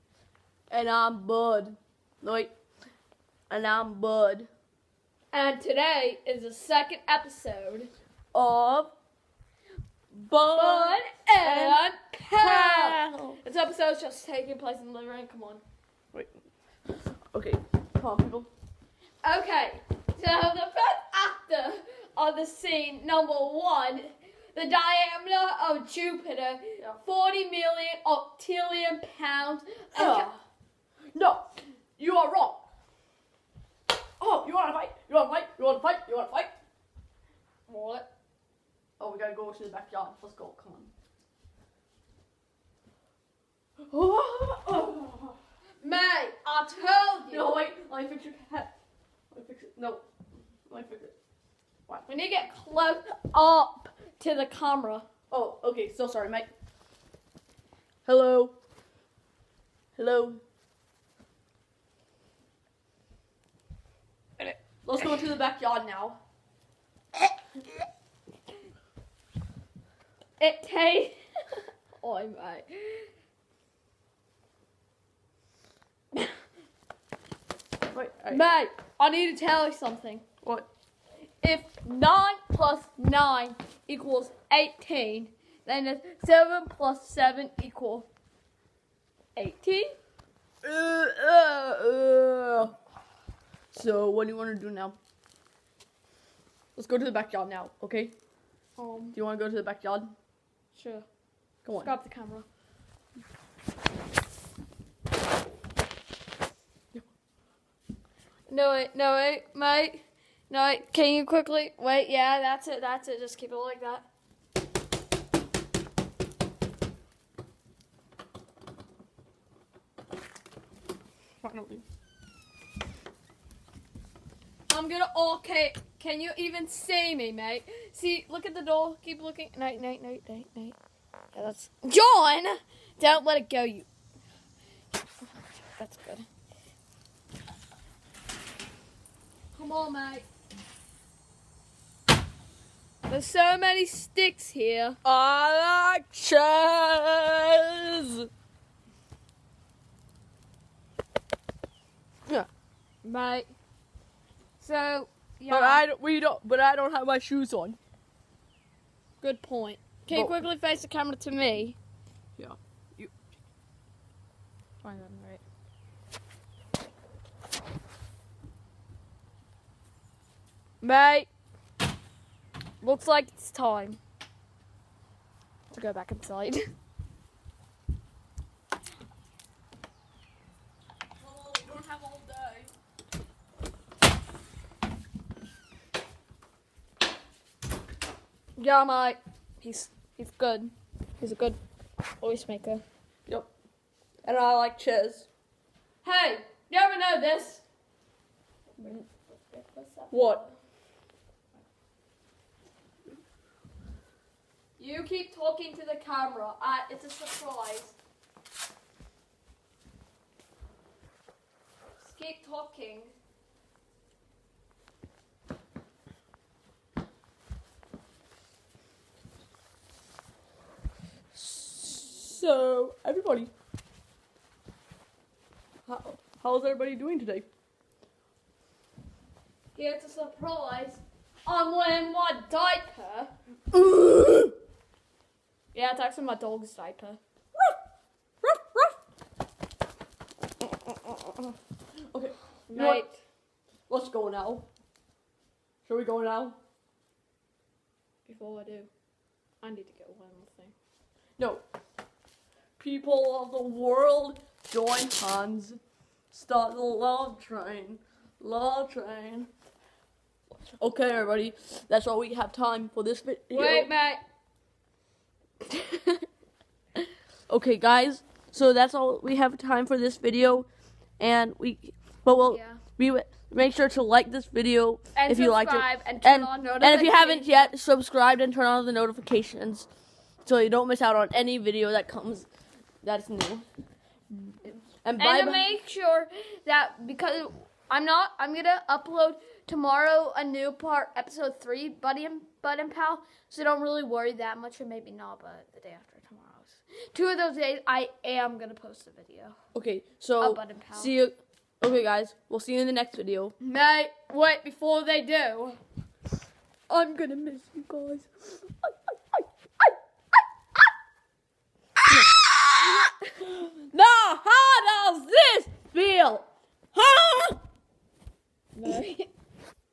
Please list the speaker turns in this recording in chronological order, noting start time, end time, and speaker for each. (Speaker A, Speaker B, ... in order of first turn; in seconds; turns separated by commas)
Speaker A: 0.7-2.5, Speaker A: 3.5-4.5, Speaker B: 5.3-7.9, Speaker A: 8.3-8.9, Speaker A: 10.1-11.8, Speaker B: 10.5-15.6, Speaker A: 12.3-13.4, Speaker A: 16.9-18.5, Speaker B: 19.2-30.3, Speaker A: 29.9-30.4, Speaker A: 31.1-32.6, Speaker A: 34.2-36.5, Speaker B: 37.7-38.1, Speaker A: 39.0-40.9, Speaker A: 43.9-45.4, Speaker B: 45.8-47.5, Speaker A: 47.3-48.7, Speaker A: 49.3-50.0, Speaker A: 50.7-51.1, Speaker B: 52.1-55.1, Speaker A: 55.3-56.5, Speaker A: 58.0-58.5, Speaker A: 60.0-60.4, Speaker A: 64.8-66.2, Speaker B: 70.4-71.2, Speaker B: 72.0-73.1, Speaker A: 77.9-78.4, Speaker B: 78.3-80.2, Speaker A: 80.4-80.7, Speaker B: 81.4-88.1, Speaker B: 89.3-90.0, Speaker A: 90.6-92.7, Speaker A: 93.7-95.0, Speaker A: 96.8-98.1, Speaker B: 98.8-99.2, Speaker A: 99.1-100.1, Speaker B: 100.7-101.0, Speaker A: 101.6-101.9, Speaker B: 101.8-102.5, Speaker B: 108.5-114.0, Speaker A: 121.4-121.8, Speaker B: 124.7-130.8, Speaker B: 131.3-133.9, Speaker B: 135.2-136.3, Speaker B: 139.5-140.3, Speaker B: 143.1-145.0, Speaker A: 145.0-148.3, Speaker B: 153.0-153.5, Speaker B: 154.6-155.8, Speaker A: 155.5-157.8, Speaker B: 159.2-161.8, Speaker A: 162.4-163.1, Speaker B: 164.8-165.4, Speaker B: 170.8-171.3, Speaker B: 172.8-174.0, Speaker B: 175.7-176.6, Speaker A: 181.2-182.7, Speaker B: 188.6-191.6, Speaker B: 192.2-192.8, Speaker A: 194.2-195.3, Speaker B: 196.0-197.6, Speaker B: 198.8-200.5, Speaker A: 200.1-200.4, Speaker B: 204.8-207.9, Speaker B: 212.0-213.1, Speaker A: 221.3-223.5, Speaker A: 225.9-227.4, Speaker B: 229.7-233.3, Speaker A: 233.7-234.5, Speaker B: 235.7-237.2, Speaker A: 238.4-238.9, Speaker A: 242.1-243.1, Speaker B: 242.7-243.2, Speaker A: 243.9-244.6, Speaker A: 245.8-246.6, Speaker B: 248.2-248.9, Speaker B: 249.6-250.7, Speaker A: 251.4-251.6, Speaker A: 252.8-255.8, Speaker A: 256.3-259.5, Speaker A: 260.8-263.9, Speaker B: 263.5-264.2, Speaker B: 265.7-266.2, Speaker A: 267.5-270.7, Speaker A: 271.2-279.9, Speaker B: 272.4-272.8, Speaker B: 275.1-277.6, Speaker A: 280.4-282.5, Speaker A: 283.0-283.6, Speaker A: 285.0-285.6, Speaker B: 285.2-299.6, Speaker A: 299.7-303.5, Speaker B: 300.4-301.1, Speaker B: 303.6-305.8, Speaker A: 306.9-308.4, Speaker A: 312.1-312.4, Speaker B: 312.8-313.5, Speaker A: 313.9-317.6, Speaker B: 318.8-319.3